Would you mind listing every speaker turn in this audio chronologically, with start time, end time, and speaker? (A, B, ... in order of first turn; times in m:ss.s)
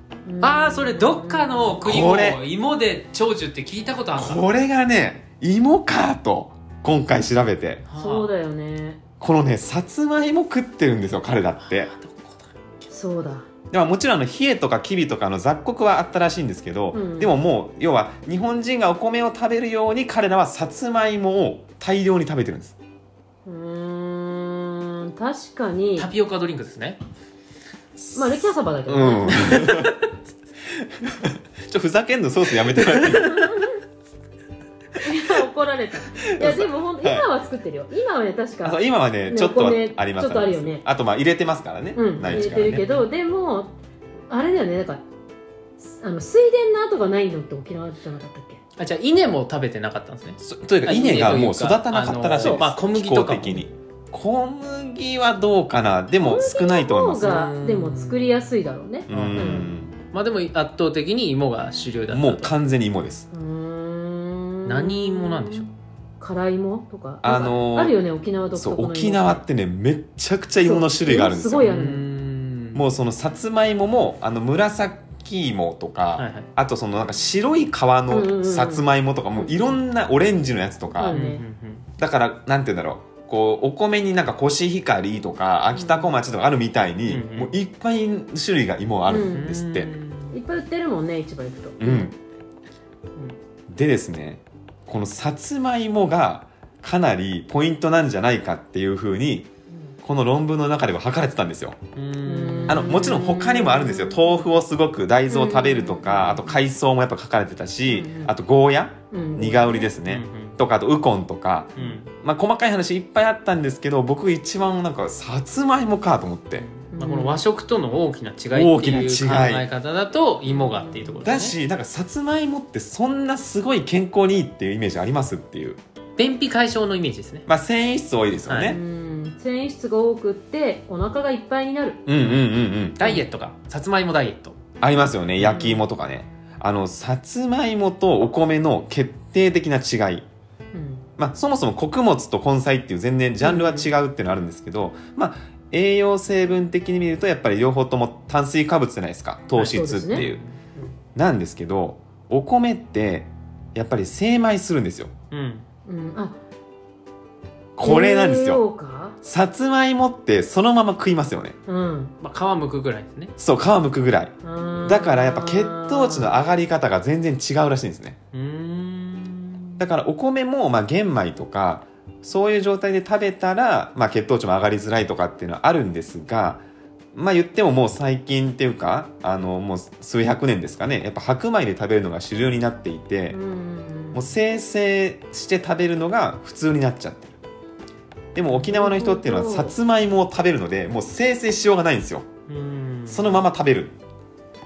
0:00.3-0:01.8 A
0:00.4-0:04.4 B
0:01.8-0:02.4 C
0:04.2-0:07.8 C
0:07.9-0:08.3 B
0:08.0-0:09.0 A
0:09.2-0:11.9 C
0:11.6-0:12.9 B
0:12.9-0:13.5 A
0:13.7-0:22.8 C
0:16.9-0:17.4 A
0:23.4-0:26.1 A
0:26.0-0:27.0 B
0:28.0-0:30.0 C
0:28.1-0:29.7 A
0:30.7-0:33.6 C
0:33.2-0:33.8 A
0:35.0-0:40.8 A
0:36.2-0:37.3 C
0:38.6-0:42.8 C
0:41.9-0:43.8 A
0:42.3-0:42.8 B
0:44.3-0:45.0 A
0:45.8-0:48.6 A
0:48.8-0:53.6 B
0:50.4-0:57.4 C
0:52.4-0:52.6 A
0:56.2-0:59.7 A
0:57.2-0:58.5 B
0:59.1-0:59.9 C
0:59.1-1:02.5 B
1:02.1-1:03.3 C
1:03.3-1:05.7 A
1:04.7-1:05.7 B
1:06.2-1:09.4 A
1:07.2-1:08.0 C
1:08.5-1:11.7 C
1:10.6-1:12.0 A
1:11.6-1:12.8 B
1:12.8-1:21.2 C
1:16.2-1:16.5 B
1:18.1-1:18.9 A
1:19.4-1:19.7 A
1:21.0-1:21.4 A
1:21.1-1:21.8 B
1:22.0-1:29.9 C
1:25.7-1:26.1 A
1:27.1-1:27.5 B
1:29.1-1:29.5 A
1:29.2-1:30.4 B
1:30.3-1:32.1 A
1:31.8-1:32.2 C
1:33.7-1:39.5 C
1:40.0-1:41.8 C
1:42.0-1:42.9 B
1:42.2-1:44.4 A
1:42.7-1:56.7 C
1:45.3-1:46.6 A
1:47.9-1:48.3 A
1:49.1-1:49.9 A
1:50.1-1:50.6 B
1:51.8-1:52.1 B
1:56.6-2:01.6 B
1:56.9-1:57.4 A
1:58.5-1:59.7 C
2:00.5-2:01.3 A
2:01.2-2:05.8 C
2:06.2-2:07.5 B
2:07.5-2:08.8 C
2:08.5-2:08.8 B
2:08.6-2:12.0 A
2:12.1-2:13.0 C
2:13.0-2:14.6 B
2:14.8-2:20.2 C
2:15.4-2:15.8 A
2:20.7-2:21.0 A
2:21.2-2:30.4 C
2:23.4-2:23.9 A
2:29.6-2:30.5 B
2:29.6-2:30.9 A
2:31.1-2:35.1 C
2:35.3-2:35.6 B
2:35.9-2:36.4 A
2:37.8-2:38.6 C
2:37.8-2:39.2 A
2:39.2-2:41.6 C
2:41.7-2:42.1 A
2:42.2-2:43.3 B
2:43.4-2:48.2 C
2:44.4-2:46.4 A
2:48.3-2:49.8 B
2:49.8-2:56.6 C
2:57.1-3:03.4 C
3:03.3-3:04.3 A
3:04.1-3:07.4 C
3:08.4-3:12.3 C
3:08.5-3:09.8 A
3:12.5-3:13.4 B
3:13.1-3:13.9 C